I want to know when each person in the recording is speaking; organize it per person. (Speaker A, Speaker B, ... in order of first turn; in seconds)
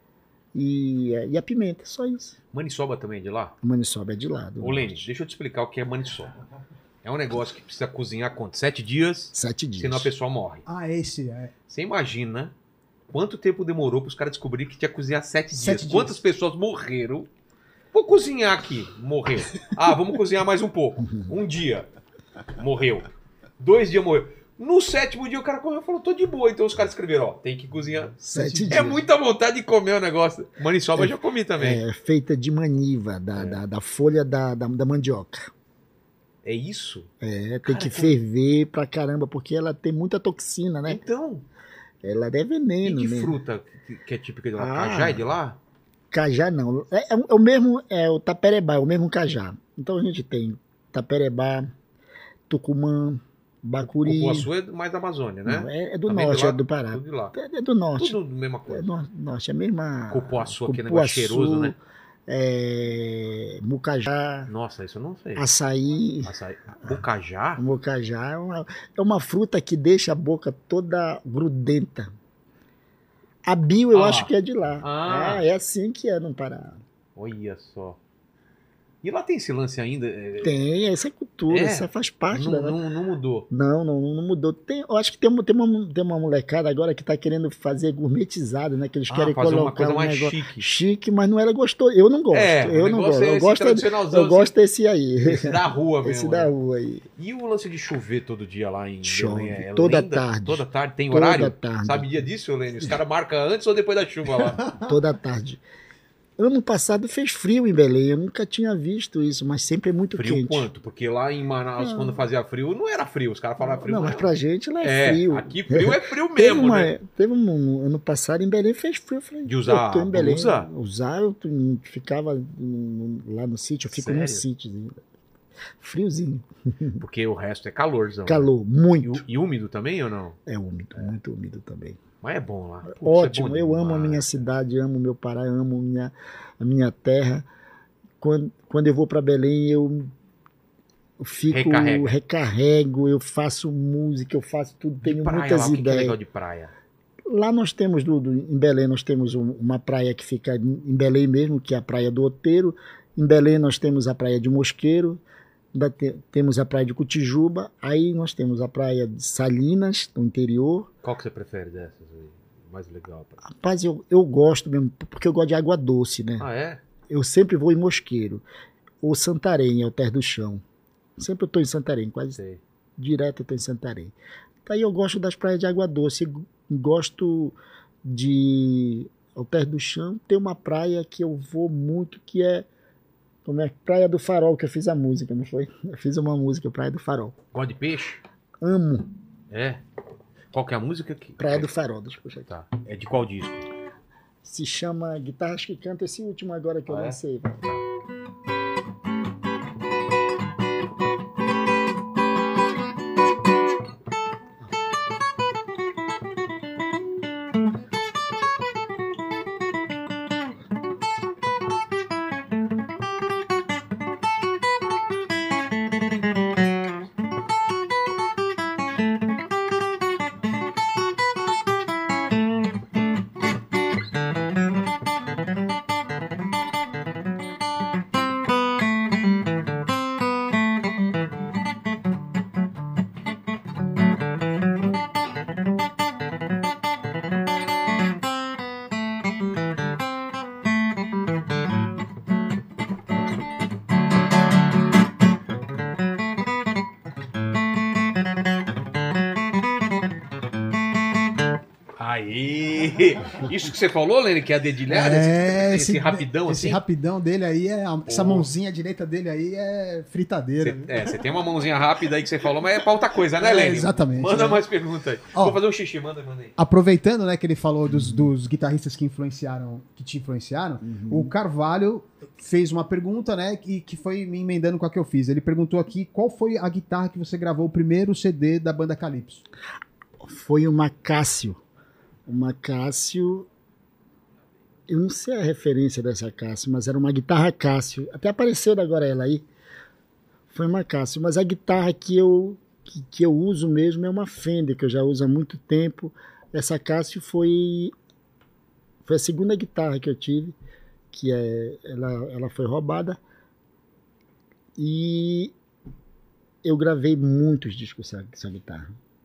Speaker A: 0.6-2.4, 3.6-5.1, 9.3-10.1, 28.2-29.0, 31.0-35.5, 37.2-41.0, 42.0-43.4, 44.6-45.3, 46.1-51.7, 52.5-54.5, 55.5-58.2, 58.7-64.5, 65.4-66.3, 67.6-72.1, 73.5-76.8, 80.4-82.8, 83.5-97.1, 99.0-102.1, 104.7-105.6, 106.4-110.7, 111.8-112.2, 113.6-125.0, 125.8-127.0, 128.3-129.2, 130.5-132.0, 132.9-137.5, 138.2-140.1, 141.2-146.2, 147.3-155.2, 155.7-160.9, 163.5-166.5, 167.1-168.4, 169.0-170.6, 171.2-172.4, 173.0-174.1, 174.7-182.7, 183.4-187.4, 188.6-189.1, 191.4-192.5, 194.4-197.6, 267.9-268.3, 270.8-271.3, 280.2-281.6, 282.3-283.5, 284.9-289.5, 290.5-297.9, 299.1-300.6, 301.1-303.2, 304.8-305.5, 306.6-308.9
Speaker B: 2.5-3.6, 4.6-6.4, 7.0-10.7, 11.7-12.5, 13.1-17.3, 17.9-21.9, 22.6-31.8, 33.4-33.6, 36.4-37.1, 37.7-38.1, 40.9-41.5, 42.8-45.6, 53.8-57.4, 58.0-58.9, 60.1-61.8, 64.5-65.5, 66.3-67.6, 73.9-75.5, 77.2-78.0, 79.0-80.6, 81.5-83.5, 89.1-90.7, 92.3-94.5, 95.2-96.5, 97.2-104.6, 110.2-114.3, 114.8-116.9, 119.5-120.7, 123.9-124.4, 127.0-128.5, 129.0-130.4, 132.2-134.4, 141.5-142.2, 145.0-146.7, 161.0-163.4, 166.4-166.8, 172.4-172.6, 187.5-188.2, 189.5-189.8, 190.5-191.7, 192.5-193.7, 196.9-197.8, 252.0-256.8, 258.1-258.5, 260.6-266.6
Speaker C: 10.7-11.5, 15.5-16.2, 28.3-28.9, 254.9-261.3, 263.3-264.6, 265.3-265.6, 266.6-279.4